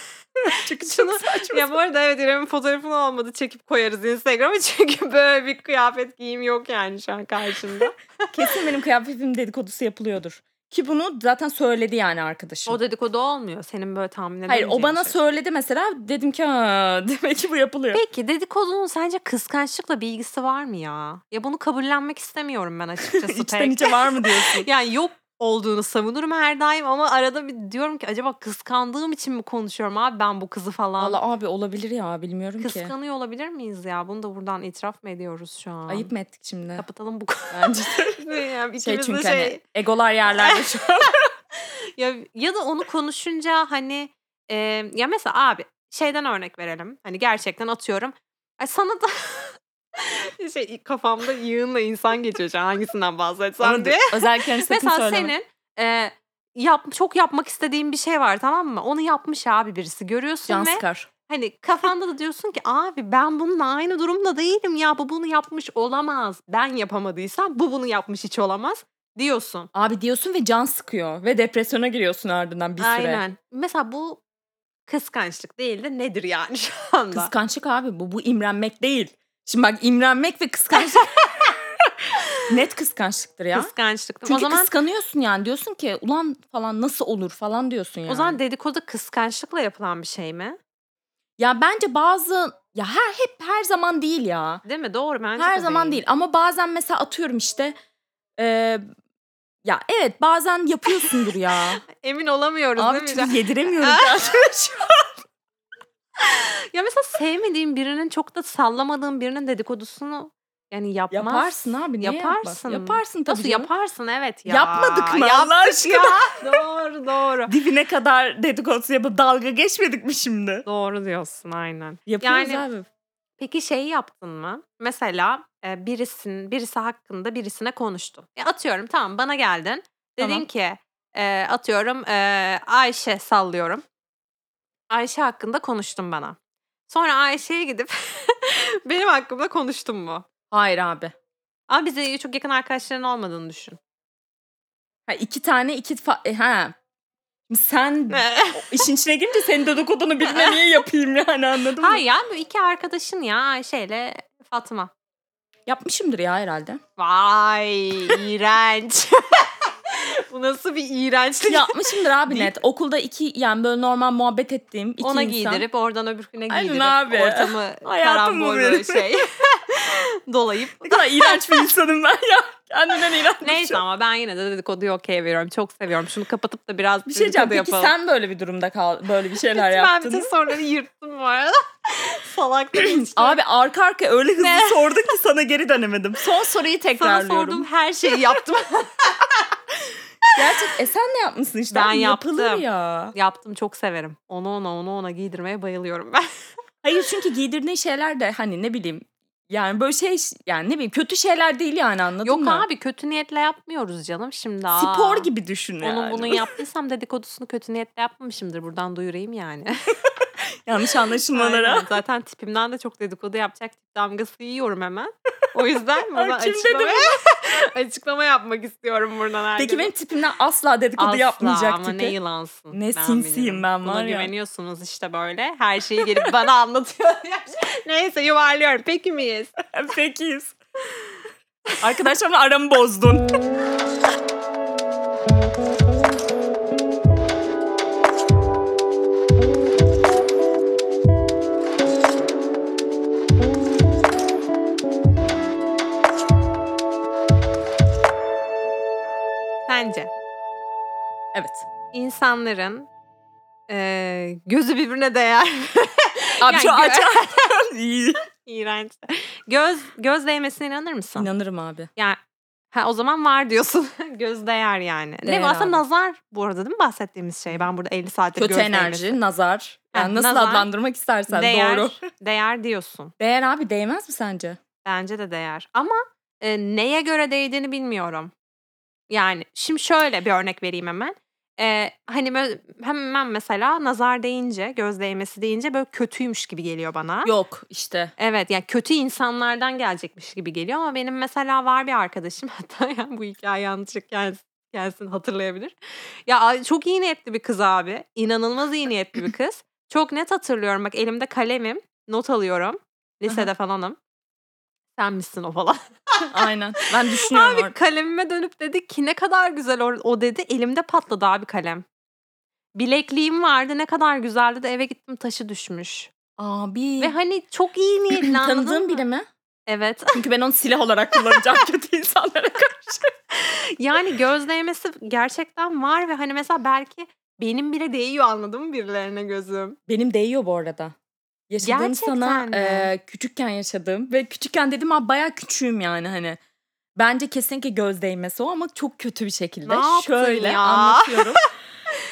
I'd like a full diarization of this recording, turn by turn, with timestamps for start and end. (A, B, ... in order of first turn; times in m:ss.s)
0:00.4-0:01.8 A
0:00.8-0:08.0 B
0:08.3-0:12.8 A
0:12.7-0:15.1 B
0:14.5-0:18.0 A
0:17.9-0:31.2 B
0:23.2-0:24.7 A
0:31.0-0:32.9 A
0:32.6-0:36.1 B
0:35.9-0:36.8 A
0:36.8-0:39.6 B
0:37.5-0:38.2 A
0:38.8-0:41.2 A
0:40.3-1:09.7 B
0:53.6-0:55.3 A
1:00.5-1:01.1 A
1:09.7-1:13.2 A
1:12.8-1:14.2 B
1:14.9-1:17.3 B
1:17.1-1:21.5 A
1:20.8-1:21.3 B
1:22.5-1:23.7 A
1:23.5-1:24.7 B
1:24.2-1:28.4 A
1:28.1-1:30.6 B
1:31.4-1:34.6 A
1:34.6-1:36.0 B
1:35.4-1:37.7 A
1:38.4-1:38.8 A
1:39.6-1:41.8 A
1:41.9-1:44.1 B
1:42.8-1:45.1 A
1:46.2-1:57.5 B
1:51.1-1:53.7 A
1:54.4-1:56.6 A
1:57.5-2:00.6 A
2:00.6-2:02.6 B
2:02.1-2:02.9 A
2:03.4-2:13.8 B
2:10.2-2:10.4 A
2:14.9-2:16.4 B
2:16.9-2:20.2 B
2:20.5-2:21.1 A
2:21.7-2:23.8 B
2:25.1-2:26.8 A
2:27.5-2:32.0 A
2:28.1-2:28.8 B
2:30.2-2:30.6 B
2:31.8-2:34.9 B
2:35.6-2:36.8 A
2:37.0-2:42.6 B
2:41.5-2:45.6 A
2:45.0-2:51.7 B
2:46.5-2:49.0 A
2:50.8-2:53.8 A
2:53.4-2:57.9 B
2:57.1-3:00.3 A
2:59.5-3:03.4 B
3:02.8-3:07.7 A
3:04.4-3:04.9 B
3:07.0-3:09.6 B
3:10.4-3:13.1 A
3:10.4-3:10.7 B
3:11.7-3:16.3 B
3:16.8-3:22.6 A
3:22.2-3:25.3 B
3:24.7-3:26.6 A
3:25.8-3:29.9 B
3:30.0-3:31.9 A
3:31.3-3:39.9 B
3:36.1-3:37.2 A
3:39.6-3:42.1 A
3:41.0-3:49.5 B
3:42.7-3:44.3 A
3:49.7-3:50.5 A
3:51.8-3:53.2 A
4:09.7-4:10.1 B
4:11.3-4:11.7 A
4:11.9-4:12.9 B
4:13.7-4:17.5 B
4:16.4-4:18.2 A
4:18.4-4:21.3 B
4:21.2-4:21.9 A
4:22.7-4:29.2 B
4:25.2-4:25.8 A
4:28.4-4:32.0 A
4:29.9-4:30.7 B
4:31.3-4:33.1 B
4:33.2-4:34.6 A
4:34.8-4:38.3 B
4:39.1-4:47.3 B
4:47.2-4:48.1 A
4:48.2-5:04.0 B
5:05.0-5:11.8 B
5:06.3-5:07.7 A
5:12.7-5:16.1 B
5:16.4-5:17.1 A
5:17.0-5:19.0 B
5:18.2-5:19.2 A
5:19.7-5:20.2 B
5:20.1-5:23.1 A
5:23.3-5:29.8 B
5:29.9-5:30.9 A
5:31.5-5:36.4 A
5:31.6-5:32.9 B
5:37.0-5:41.4 A
5:39.7-5:41.4 B